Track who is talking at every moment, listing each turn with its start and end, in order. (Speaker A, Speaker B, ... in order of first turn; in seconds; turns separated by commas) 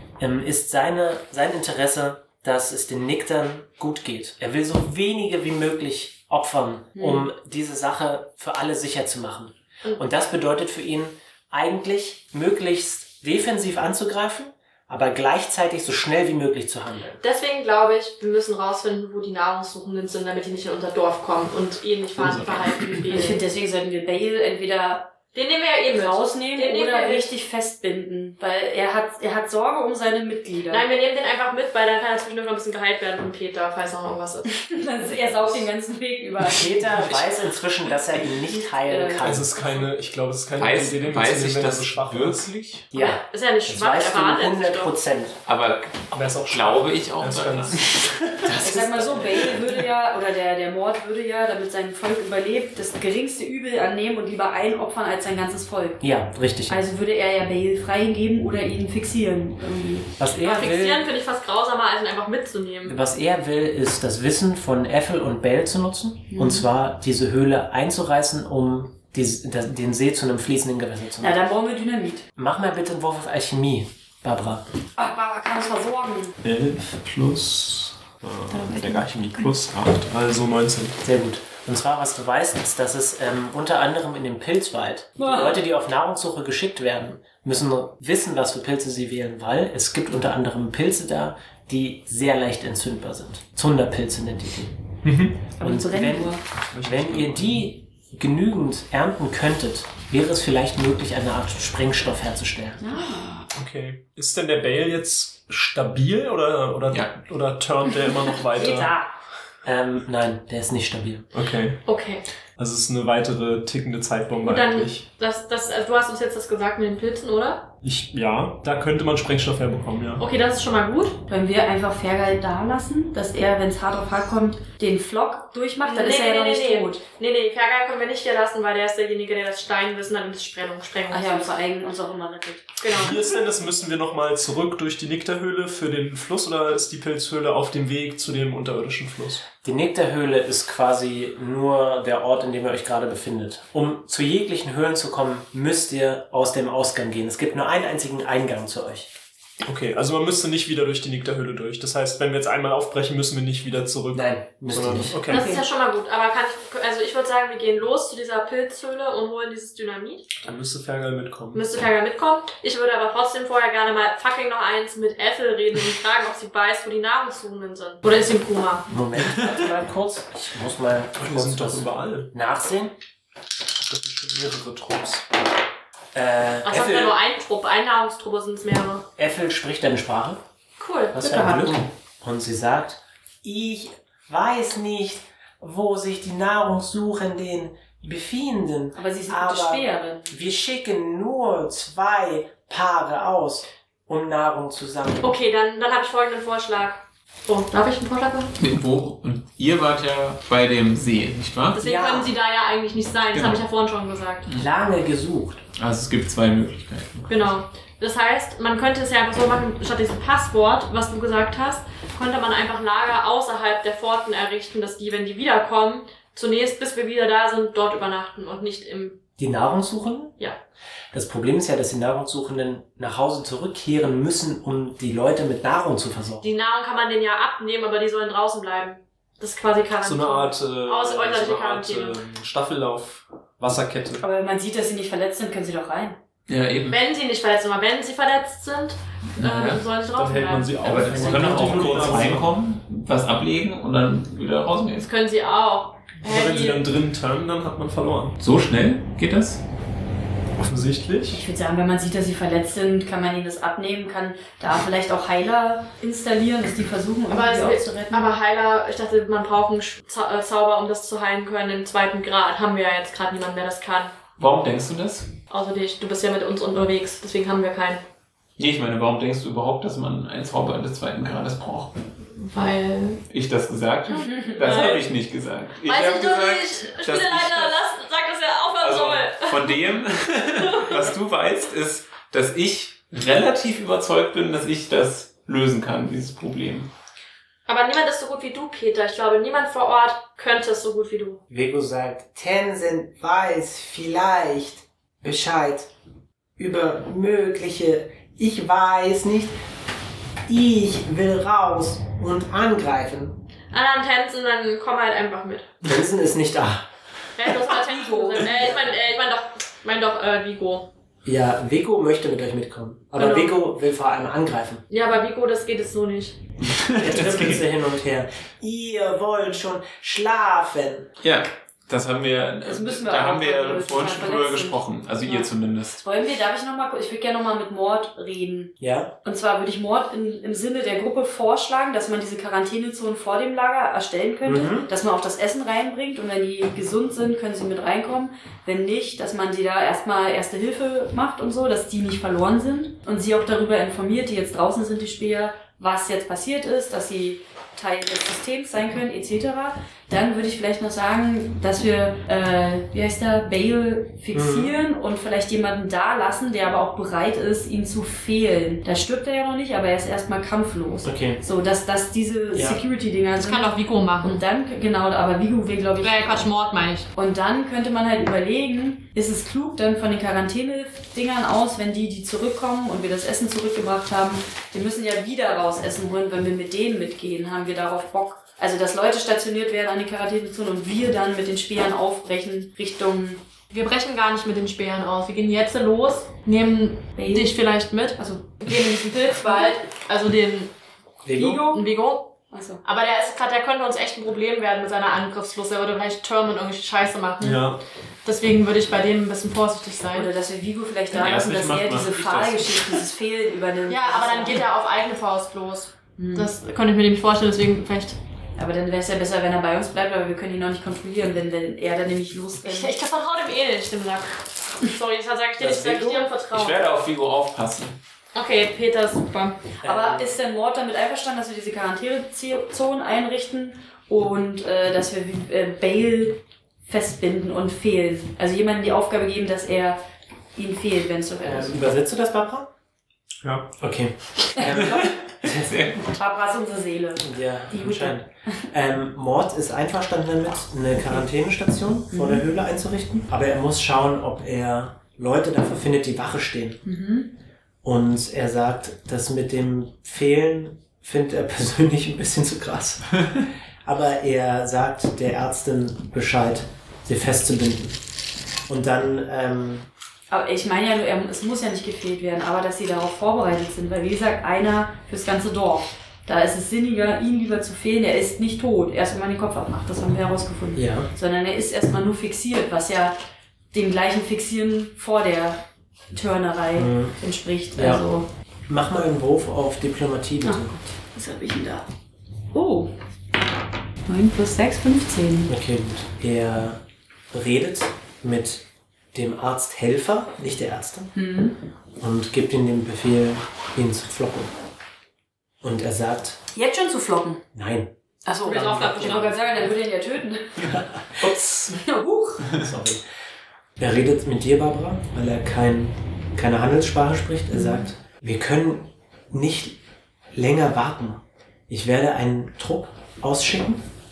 Speaker A: 0.2-17.2, Speaker B: 6.9-7.3, Speaker C: 17.2-23.4, Speaker D: 22.2-22.9, Speaker B: 23.1-25.1, Speaker C: 25.3-27.3, Speaker B: 25.9-30.9, Speaker C: 30.7-34.5, Speaker B: 34.5-37.0, Speaker A: 36.4-39.5, Speaker B: 38.8-39.3, Speaker E: 39.2-42.5, Speaker D: 40.6-42.9, Speaker A: 42.9-45.4, Speaker C: 43.0-44.9, Speaker D: 45.5-48.8, Speaker E: 46.1-48.4, Speaker A: 48.5-49.5, Speaker B: 48.6-56.0, Speaker A: 56.0-56.8, Speaker B: 56.7-60.1, Speaker A: 60.2-61.1, Speaker C: 60.4-63.0, Speaker A: 62.9-71.4, Speaker B: 66.3-66.7, Speaker B: 71.2-72.2, Speaker A: 72.3-74.6, Speaker B: 75.0-76.3, Speaker E: 76.4-81.0, Speaker B: 78.5-79.5, Speaker A: 81.0-94.8, Speaker B: 85.2-85.6, Speaker E: 95.0-95.5, Speaker A: 95.5-102.8, Speaker B: 95.6-96.4, Speaker E: 96.7-97.7, Speaker B: 102.8-103.4, Speaker E: 103.5-108.9, Speaker D: 106.9-107.2, Speaker B: 108.5-109.1, Speaker A: 109.6-111.3, Speaker E: 111.3-111.8, Speaker C: 111.8-112.2, Speaker E: 112.6-115.0, Speaker C: 114.4-117.7, Speaker E: 117.8-120.2, Speaker C: 120.2-121.2, Speaker B: 121.3-127.0, Speaker C: 125.8-131.6, Speaker B: 131.1-132.6, Speaker C: 132.8-133.2, Speaker E: 132.9-139.4, Speaker A: 139.6-149.1, Speaker E: 149.6-155.4, Speaker A: 154.1-155.2, Speaker B: 155.3-155.6, Speaker C: 155.3-160.3, Speaker E: 160.4-161.6, Speaker C: 161.5-168.9, Speaker A: 168.9-172.9, Speaker E: 171.2-172.3, Speaker E: 173.8-175.3, Speaker A: 176.1-177.2, Speaker C: 176.6-179.0, Speaker A: 179.2-180.4, Speaker C: 180.8-181.2, Speaker A: 181.1-195.4, Speaker B: 181.2-181.8, Speaker B: 188.9-190.4, Speaker C: 195.2-198.5, Speaker D: 198.6-201.8, Speaker C: 201.7-204.4, Speaker A: 201.8-202.3, Speaker D: 203.3-203.6, Speaker A: 204.5-205.6, Speaker D: 205.8-207.3, Speaker C: 207.3-219.2, Speaker A: 219.4-220.3, Speaker A: 221.1-226.5, Speaker C: 226.4-232.2, Speaker E: 230.0-234.2, Speaker B: 234.2-236.2, Speaker D: 236.5-237.0, Speaker C: 236.9-241.6, Speaker D: 239.4-239.8, Speaker E: 240.1-242.5, Speaker D: 240.8-245.1, Speaker A: 241.2-242.3, Speaker C: 245.0-246.8, Speaker E: 246.2-248.3, Speaker D: 248.4-249.6, Speaker E: 250.6-251.4, Speaker B: 251.3-258.3, Speaker C: 257.3-264.1, Speaker D: 264.4-265.3, Speaker C: 265.5-268.0, Speaker D: 268.6-272.1, Speaker C: 272.4-273.2, Speaker D: 273.3-277.7, Speaker B: 274.1-274.8, Speaker C: 274.6-275.0, Speaker C: 275.8-279.8, Speaker D: 278.8-286.9, Speaker C: 280.6-281.1, Speaker C: 287.7-291.4, Speaker A: 291.5-295.9, Speaker A: 296.6-299.6, Speaker A: 300.5-303.4, Speaker C: 303.7-305.7, Speaker A: 305.8-306.9, Speaker C: 307.4-310.9, Speaker B: 307.7-308.5, Speaker A: 308.4-308.9, Speaker A: 311.2-314.8, Speaker C: 313.2-313.5, Speaker C: 314.9-316.4, Speaker A: 316.6-321.1, Speaker D: 316.6-317.6, Speaker D: 321.2-326.0, Speaker B: 322.6-328.7, Speaker A: 328.8-329.1, Speaker B: 329.2-366.5, Speaker A: 334.4-334.9, Speaker A: 354.3-354.8, Speaker A: 361.0-361.4, Speaker A: 362.5-362.8, Speaker C: 363.4-364.4, Speaker C: 366.0-367.1, Speaker B: 367.1-383.4, Speaker C: 383.7-390.7, Speaker B: 387.1-387.6, Speaker B: 388.2-389.7, Speaker A: 391.2-391.6, Speaker B: 391.4-391.8, Speaker C: 391.4-392.3, Speaker B: 392.5-392.8, Speaker C: 392.8-397.7, Speaker E: 397.4-397.8, Speaker C: 398.2-400.3, Speaker B: 400.1-404.7, Speaker D: 401.1-403.0, Speaker C: 403.9-408.2, Speaker B: 406.2-406.5, Speaker B: 408.6-412.9, Speaker C: 412.6-416.8, Speaker A: 415.6-416.3, Speaker D: 416.5-418.0, Speaker C: 418.3-419.6, Speaker A: 419.8-420.3, Speaker B: 419.8-430.0, Speaker B: 430.6-431.9, Speaker A: 431.4-432.7, Speaker E: 433.4-433.7, Speaker A: 433.8-436.0, Speaker B: 434.6-435.1, Speaker D: 435.5-436.0, Speaker B: 436.1-438.2, Speaker A: 437.2-446.8, Speaker B: 442.1-442.4, Speaker B: 446.9-447.3, Speaker A: 447.8-453.3, Speaker A: 453.8-458.0, Speaker A: 458.7-459.9, Speaker B: 460.3-473.1, Speaker A: 470.7-471.1, Speaker B: 473.7-475.6, Speaker B: 476.1-478.3, Speaker A: 476.8-477.1, Speaker A: 477.8-478.0, Speaker A: 478.7-480.8, Speaker B: 480.4-481.9, Speaker B: 482.5-482.9, Speaker B: 484.1-485.5, Speaker A: 485.5-486.8, Speaker A: 487.3-491.1, Speaker B: 491.1-491.6, Speaker A: 492.0-494.5, Speaker A: 495.6-496.4, Speaker B: 496.5-497.4, Speaker A: 497.5-497.9, Speaker B: 498.2-502.5, Speaker C: 498.4-499.7, Speaker D: 501.2-501.8, Speaker A: 502.5-503.0, Speaker A: 503.8-509.8, Speaker B: 507.5-507.9, Speaker A: 510.3-513.8